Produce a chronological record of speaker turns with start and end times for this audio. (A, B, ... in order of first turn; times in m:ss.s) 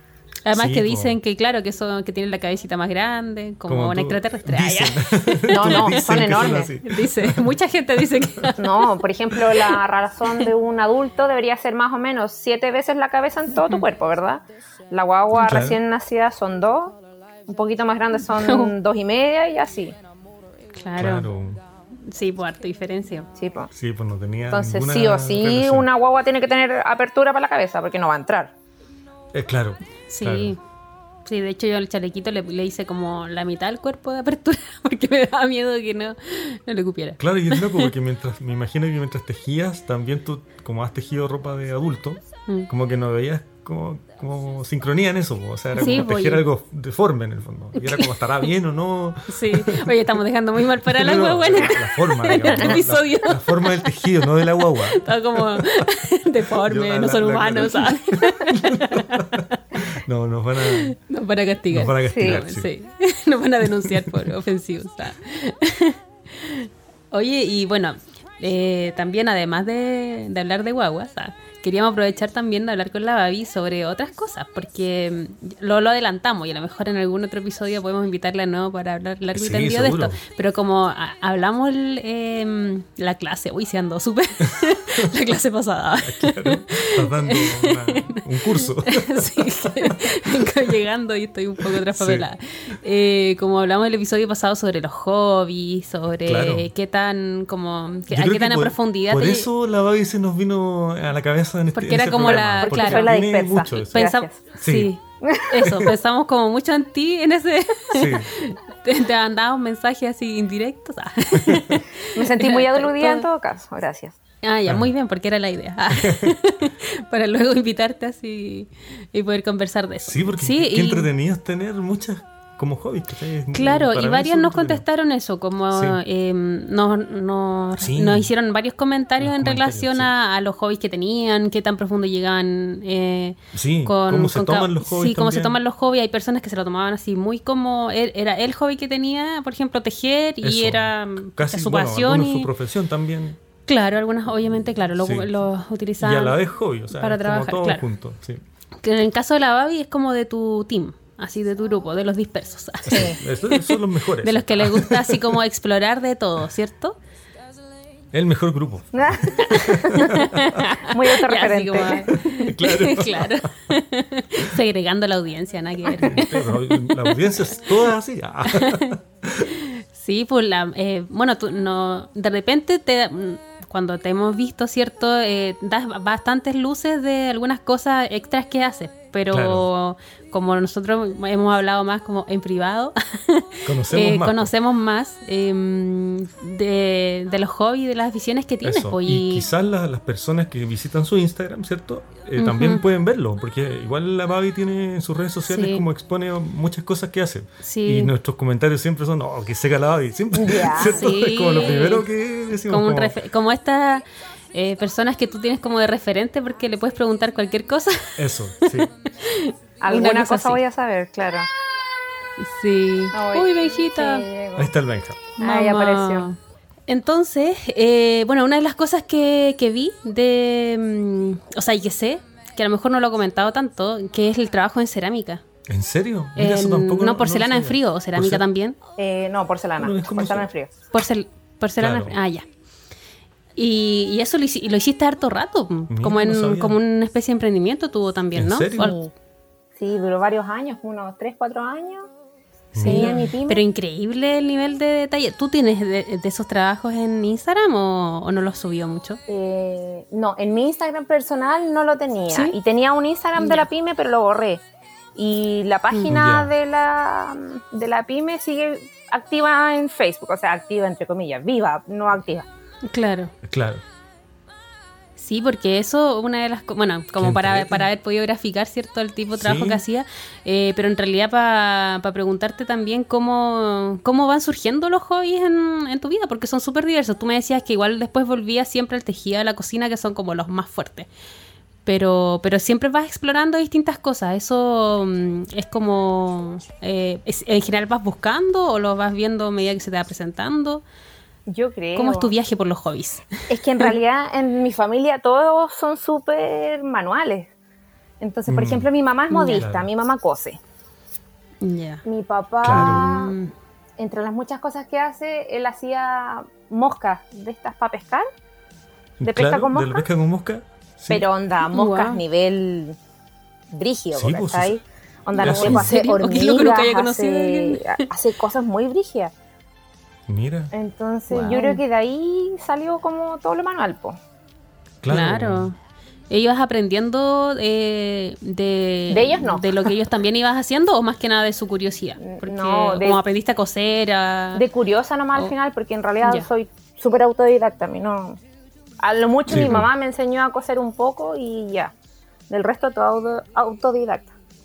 0:00.5-0:06.0 A
0:00.5-0:01.2 B
0:03.7-0:07.5 B
0:05.5-0:06.7 C
0:06.8-0:09.0 A
0:08.6-0:20.0 C
0:09.5-0:09.8 A
0:15.4-0:15.8 B
0:18.4-0:18.8 A
0:20.8-0:21.3 A
0:21.0-0:21.6 B
0:22.0-0:23.3 A
0:23.4-0:23.7 C
0:23.7-0:25.9 B
0:24.5-0:28.5 C
0:29.3-0:30.6 B
0:30.1-0:30.6 A
0:31.2-0:37.9 A
0:37.2-0:50.0 B
0:45.8-0:46.4 A
0:47.8-0:48.5 A
0:49.3-0:59.5 A
0:50.8-0:55.8 B
0:56.6-1:01.0 B
1:00.6-1:39.5 A
1:01.7-1:02.7 B
1:02.1-1:02.4 C
1:03.8-1:04.3 B
1:19.3-1:20.2 B
1:24.5-1:25.1 B
1:26.0-1:30.4 B
1:31.9-1:32.3 B
1:36.2-1:36.7 B
1:38.1-1:44.1 B
1:41.8-1:43.1 A
1:42.6-1:44.5 C
1:43.9-1:53.2 A
1:44.6-1:44.9 B
1:45.2-1:45.7 C
1:45.6-1:45.9 B
1:47.9-1:48.3 B
1:51.3-1:51.7 B
1:52.1-1:54.2 C
1:54.4-2:01.1 A
1:56.0-1:56.3 B
2:00.0-2:04.8 B
2:03.5-2:22.5 A
2:05.7-2:06.0 B
2:07.8-2:08.3 B
2:09.2-2:10.1 B
2:13.5-2:15.6 B
2:20.4-2:23.4 B
2:23.7-2:26.4 A
2:25.0-2:25.3 B
2:26.0-2:28.4 B
2:26.9-2:27.8 A
2:28.8-2:37.0 A
2:32.8-2:35.3 B
2:32.9-2:33.2 C
2:38.1-2:40.7 B
2:38.9-2:39.5 C
2:39.4-2:47.7 A
2:40.8-2:42.1 C
2:42.1-2:43.5 B
2:45.9-2:49.5 B
2:48.5-2:48.9 A
2:49.5-3:09.5 A
2:59.3-2:59.7 B
3:03.6-3:04.5 B
3:08.6-3:23.2 B
3:12.4-3:12.8 A
3:15.5-3:15.8 A
3:17.6-3:18.1 A
3:20.3-3:21.0 C
3:20.8-3:22.1 A
3:22.7-3:30.6 A
3:28.2-3:28.9 B
3:29.8-3:31.5 C
3:32.4-3:34.3 A
3:33.1-3:34.7 C
3:34.6-3:35.2 B
3:35.4-3:36.3 C
3:35.4-3:36.4 A
3:36.9-3:45.4 A
3:45.7-3:48.4 B
3:46.4-3:48.8 A
3:49.0-3:50.7 C
3:49.8-3:50.5 B
3:50.9-3:52.4 A
3:51.8-3:52.2 B
3:53.6-3:59.0 A
3:55.9-3:56.8 B
3:58.4-3:58.9 B
3:58.8-3:59.1 C
3:59.8-4:02.1 C
4:02.7-4:03.3 B
4:02.8-4:09.2 A
4:02.8-4:03.6 C
4:09.3-4:14.6 C
4:12.3-4:12.6 A
4:13.4-4:13.6 A
4:15.2-4:22.5 C
4:16.1-4:16.5 B
4:22.8-4:23.3 A
4:23.4-4:23.8 B
4:25.2-4:41.1 A
4:27.2-4:27.9 B
4:29.4-4:29.8 B
4:41.9-4:50.8 A
4:51.5-4:52.3 C
4:52.0-4:53.9 A
4:53.5-4:57.5 C
4:58.2-5:00.6 C
4:58.5-4:58.9 B
4:59.3-4:59.6 A
4:59.6-4:59.9 B
5:01.6-5:02.0 A
5:02.0-5:03.4 C
5:02.6-5:03.1 B
5:02.7-5:03.5 A
5:04.0-5:08.2 C
5:09.2-5:11.2 B
5:09.2-5:10.1 C
5:11.1-5:13.0 C
5:11.7-5:12.2 A
5:13.7-5:19.3 C
5:14.2-5:14.8 B
5:15.4-5:15.9 B
5:15.4-5:18.1 A
5:20.3-5:20.7 B
5:20.7-5:24.2 C
5:21.3-5:21.8 A
5:25.0-5:25.7 B
5:25.1-5:25.8 A
5:26.3-5:34.6 A
5:29.1-5:29.9 C
5:32.2-5:33.2 C
5:34.5-5:38.4 C
5:39.0-5:41.9 C
5:39.5-5:39.9 B
5:39.5-5:39.8 A
5:42.5-5:44.3 C